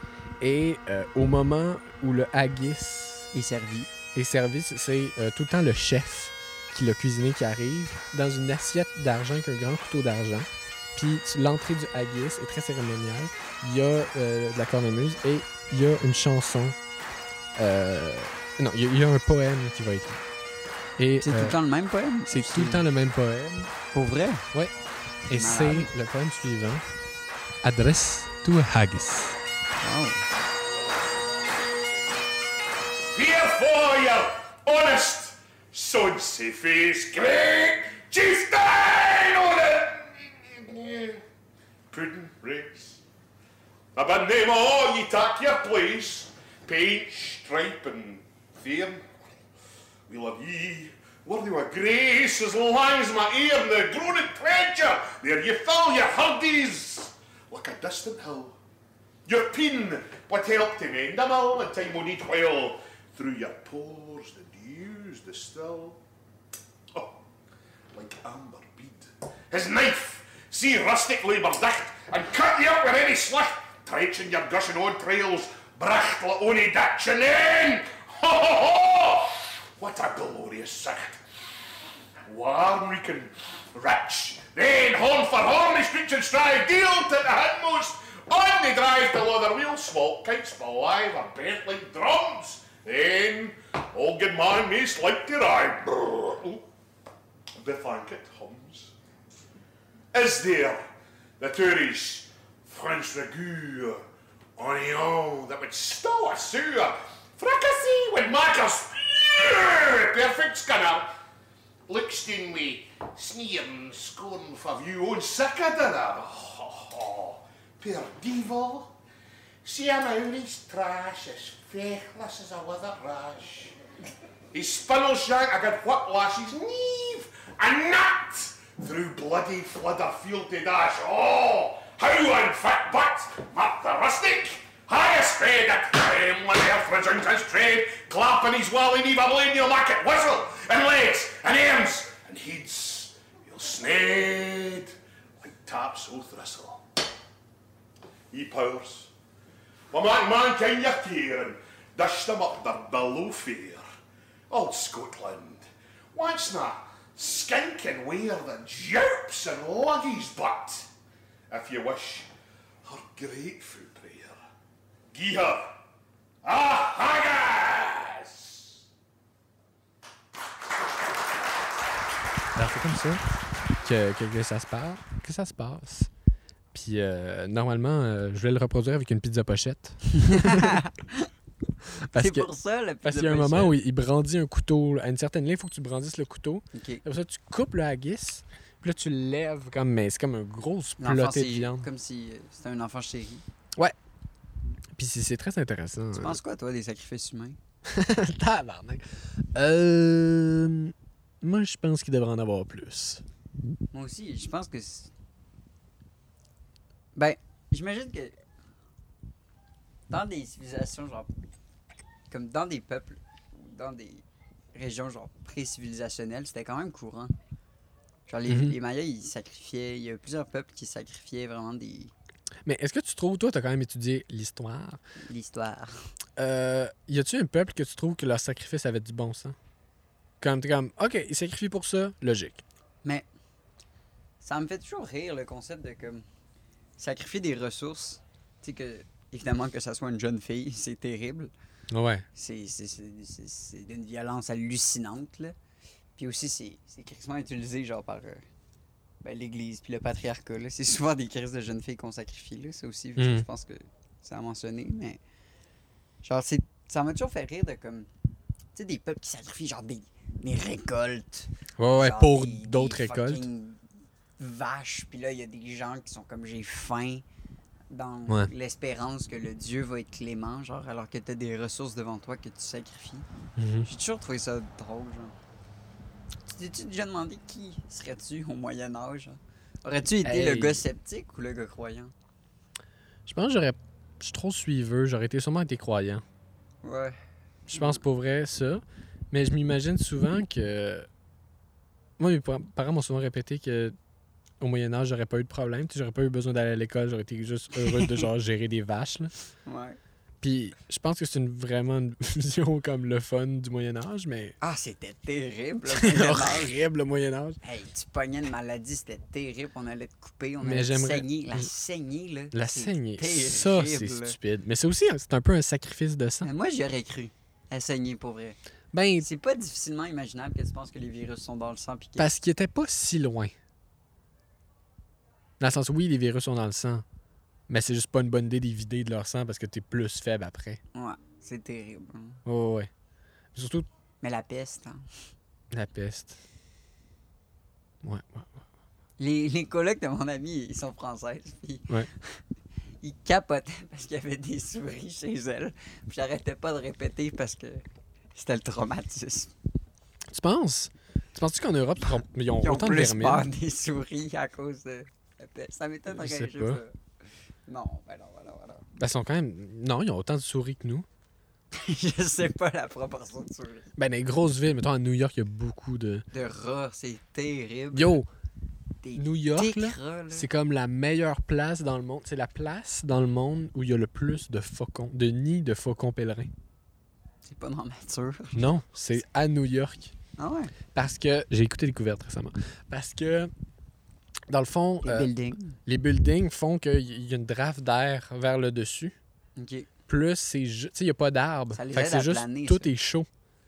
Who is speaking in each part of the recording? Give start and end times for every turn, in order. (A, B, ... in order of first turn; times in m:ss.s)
0:00.4-0:03.3 A
0:03.3-0:03.9 B
0:04.1-0:16.8 A
0:17.6-0:20.2 A
0:21.0-0:21.6 A
0:21.2-0:22.8 B
0:22.3-0:23.7 A
0:23.9-0:24.4 B
0:25.3-0:26.8 A
0:25.3-0:25.9 B
0:27.6-0:29.4 A
0:29.8-0:30.2 B
0:33.1-0:41.2 C
0:41.9-0:43.0 C
0:44.0-0:49.1 C
0:50.1-0:58.6 C
0:59.3-1:06.0 C
1:06.9-1:07.2 C
1:07.9-1:21.2 C
1:22.3-1:36.7 C
1:37.6-1:38.9 C
1:40.1-1:40.8 C
1:41.4-1:44.0 C
1:44.6-1:51.1 C
1:51.9-1:58.9 C
1:59.6-2:03.8 C
2:04.5-2:26.8 C
2:28.3-2:29.1 C
2:29.9-2:33.8 C
2:34.5-2:40.9 C
2:41.5-2:42.3 C
2:42.8-2:44.4 C
2:45.1-2:45.7 C
2:46.4-2:48.7 C
2:52.6-2:53.2 A
2:53.8-2:56.1 A
2:56.7-3:00.8 A
3:00.1-3:01.3 B
3:02.1-3:02.5 A
3:02.1-3:03.8 B
3:03.0-3:11.9 A
3:06.7-3:07.0 B
3:11.0-3:13.4 B
3:15.0-3:16.4 A
3:16.2-3:17.6 B
3:17.9-3:23.2 A
3:23.9-3:25.1 B
3:27.2-3:28.4 B
3:30.1-3:31.3 B
3:32.3-3:37.3 B
3:38.3-3:42.1 B
3:38.5-3:38.8 A
3:42.6-3:45.0 A
3:45.3-3:45.9 B
3:46.4-3:49.6 A
3:50.4-3:52.6 A
3:54.4-3:56.2 B
3:57.0-4:01.5 B
4:01.9-4:02.2 A
4:02.3-4:05.6 B
4:06.2-4:08.4 B
4:09.2-4:15.2 B
4:13.2-4:13.5 A
4:16.2-4:18.1 B
4:18.8-4:23.8 B
4:21.8-4:23.4 A
4:24.4-4:27.2 B
4:27.9-4:33.3 B
4:33.6-4:33.9 A
4:33.8-4:35.4 B
4:36.5-4:42.1 B
4:40.2-4:40.8 A
4:43.3-4:46.2 A
4:46.8-4:47.2 B
4:47.7-4:48.0 B
4:47.7-4:51.1 A
4:52.2-4:54.0 A
4:54.6-4:59.3 A
4:57.9-4:58.2 B
4:59.7-5:00.0 B
5:00.4-5:04.6 A
5:04.6-5:06.8 B
5:05.9-5:07.6 A
5:07.6-5:14.4 B
5:10.6-5:11.7 A
5:12.5-5:16.5 A
5:16.4-5:18.6 B
5:18.9-5:19.3 A
5:19.2-5:22.3 B
5:22.2-5:23.5 A
5:25.6-5:27.0 A
5:27.7-5:30.8 A
5:30.9-5:32.4 B
5:32.4-5:32.9 A
5:33.5-5:33.9 A
5:34.2-5:35.0 B
5:35.7-5:36.4 A
5:38.0-5:38.5 A
5:39.2-5:42.4 B
5:43.0-5:49.5 B
5:50.3-5:53.5 A
5:52.0-5:57.0 B
5:56.1-5:56.8 A
5:57.7-5:58.9 B
5:59.0-6:01.1 A
6:01.7-6:03.9 B
6:04.0-6:06.2 A
6:06.3-6:08.2 B
6:07.9-6:08.3 A
6:09.0-6:10.5 B
6:09.2-6:16.5 A
6:17.5-6:18.7 B
6:18.6-6:20.1 A
6:20.4-6:20.7 B
6:20.9-6:23.5 A
6:24.5-6:25.3 A
6:25.0-6:25.8 B
6:25.9-6:29.2 A
6:29.6-6:29.9 B
6:30.1-6:33.3 A
6:31.7-6:32.9 B